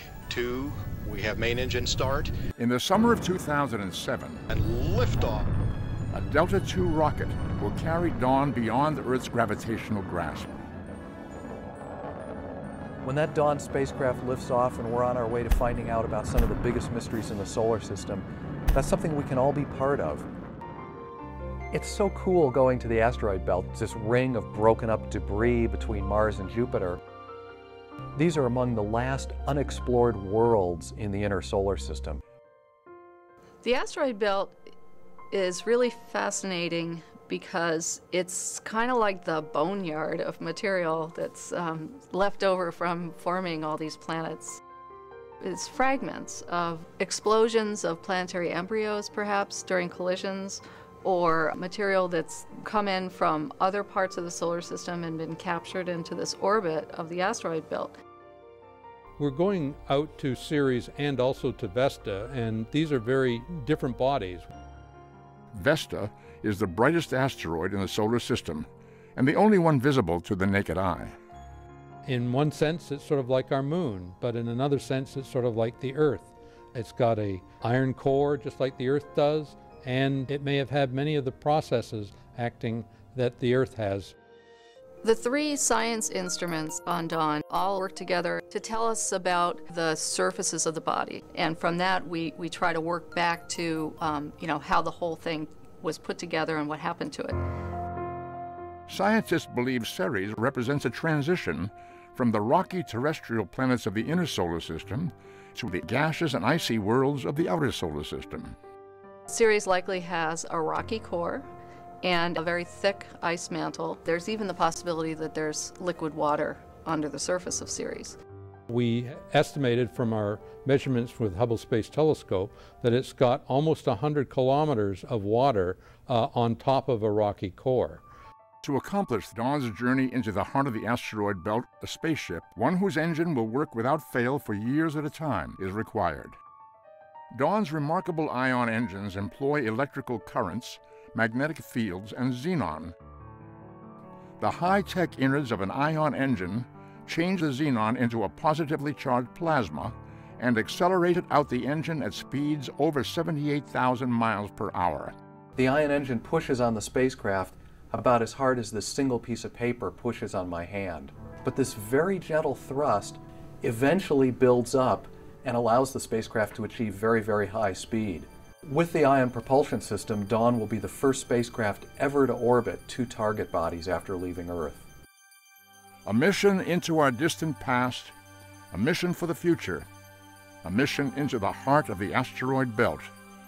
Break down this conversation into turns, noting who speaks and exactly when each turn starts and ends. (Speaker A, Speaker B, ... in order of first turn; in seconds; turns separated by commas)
Speaker A: 0.3-2.3, Speaker B: 2.6-4.4, Speaker A: 4.5-5.5, Speaker B: 6.1-10.5, Speaker C: 13.0-20.3, Speaker C: 21.7-27.0, Speaker C: 28.2-32.2, Speaker D: 33.6-34.6, Speaker D: 35.3-44.6, Speaker D: 45.4-58.0, Speaker E: 59.2-64.5, Speaker B: 65.5-71.2, Speaker E: 72.1-84.1, Speaker D: 85.0-97.4, Speaker B: 98.9-108.5, Speaker D: 109.3-111.5, Speaker D: 112.0-118.2, Speaker E: 118.7-128.0, Speaker B: 128.6-136.4, Speaker B: 137.3-142.9, Speaker B: 144.4-155.1, Speaker C: 155.6-174.8, Speaker B: 176.1-178.1, Speaker B: 178.7-179.9, Speaker B: 180.6-183.1